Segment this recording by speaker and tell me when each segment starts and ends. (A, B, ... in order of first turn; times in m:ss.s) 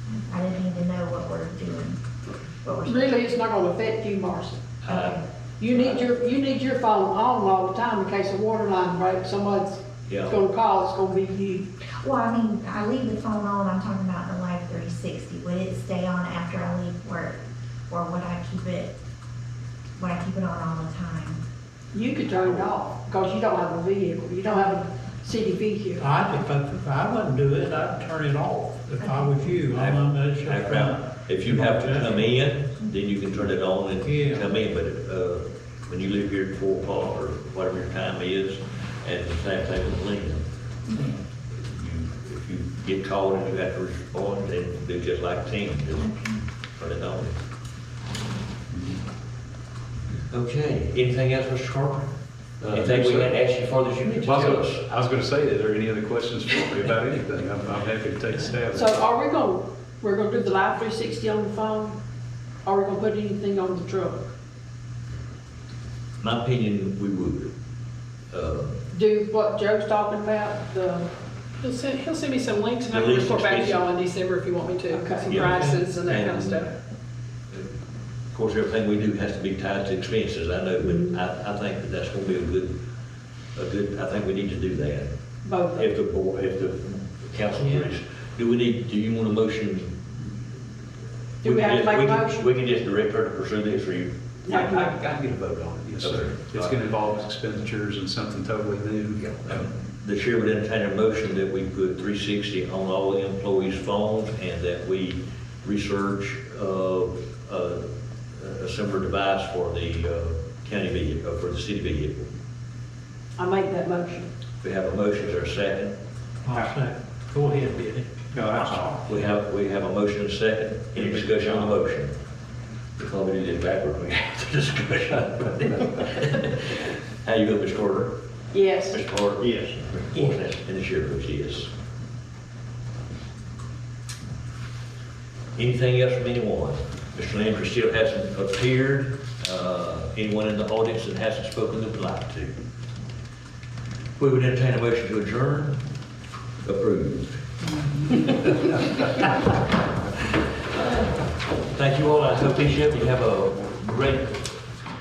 0:00.3-0:02.0 A
0:02.6-0:03.2 A
0:02.8-0:04.7 B
0:04.8-0:05.2 C
0:04.9-0:05.2 A
0:05.6-0:11.7 B
0:10.1-0:10.4 C
0:12.0-0:18.9 A
0:20.0-0:21.4 A
0:21.9-0:26.1 B
0:26.0-0:32.2 D
0:29.0-0:29.4 A
0:29.7-0:40.4 C
0:34.0-0:34.5 D
0:41.5-0:46.1 C
0:46.0-0:46.4 A
0:46.8-0:47.3 C
0:50.3-0:52.1 C
0:52.6-0:53.3 E
0:52.6-0:54.8 C
0:54.2-0:58.9 E
0:58.7-1:02.0 B
1:02.6-1:04.3 B
1:06.2-1:07.5 C
1:08.3-1:08.8 C
1:08.9-1:11.1 B
1:11.6-1:16.6 F
1:12.9-1:13.8 C
1:14.9-1:16.4 B
1:15.2-1:16.6 C
1:15.3-1:15.9 D
1:18.3-1:22.7 C
1:20.8-1:21.1 B
1:23.5-1:25.1 C
1:25.4-1:25.9 B
1:25.7-1:30.4 C
1:31.4-1:32.4 B
1:31.4-1:34.8 C
1:34.4-1:34.9 B
1:34.5-1:39.7 E
1:36.0-1:36.8 C
1:39.2-1:47.8 C
1:48.3-1:52.3 C
1:53.4-1:54.3 B
1:54.6-1:55.9 C
1:56.4-1:58.8 D
1:58.4-1:58.7 E
1:59.0-2:02.1 C
2:03.0-2:08.2 C
2:08.5-2:09.0 B
2:08.9-2:11.7 C
2:15.6-2:22.5 C
2:24.2-2:25.8 C
2:26.6-2:27.4 C
2:28.1-2:28.8 C
2:31.7-2:34.6 C